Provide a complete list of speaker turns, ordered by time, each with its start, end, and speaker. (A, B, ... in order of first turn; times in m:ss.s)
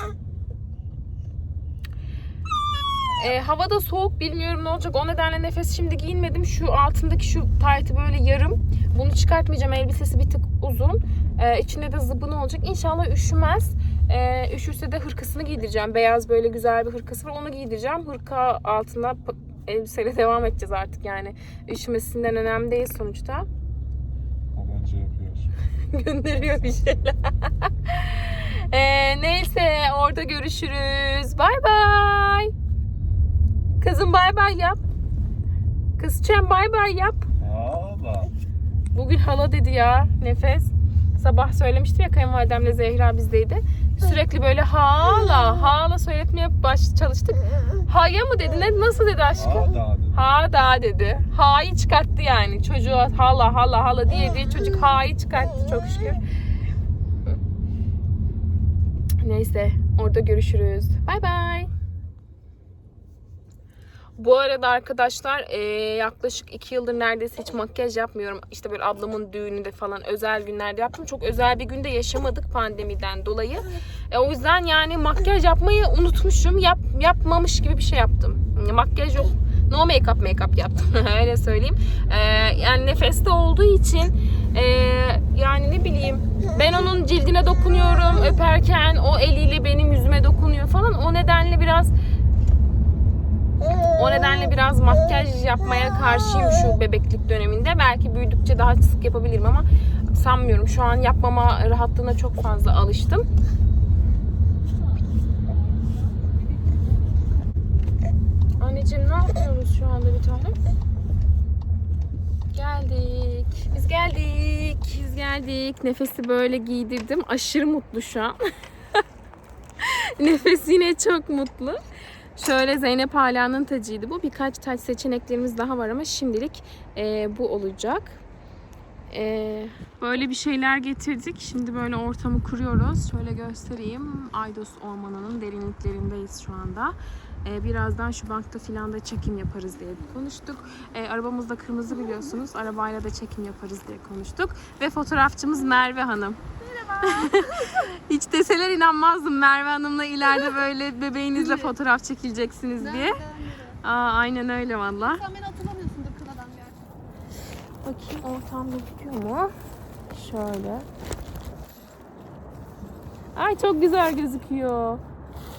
0:03.2-0:23.5 A
0:24.5-0:25.5 B
0:25.9-0:32.5 A
0:33.8-0:34.8 A
0:36.0-0:37.3 A
0:37.4-0:38.3 B
0:38.9-0:56.2 A
0:49.4-0:50.2 B
0:59.2-1:01.7 A
1:04.2-1:31.9 A
1:33.9-1:43.3 A
1:48.6-1:50.6 A
1:52.5-1:58.4 A
1:59.8-2:01.8 A
2:02.4-2:08.2 A
2:09.1-2:26.4 A
2:26.6-2:27.4 C
2:27.0-2:33.2 A
2:31.4-2:31.7 C
2:32.8-2:33.8 C
2:33.8-2:35.2 A
2:35.1-2:36.8 C
2:37.8-2:39.5 A
2:40.1-2:40.9 A
2:43.4-2:45.0 A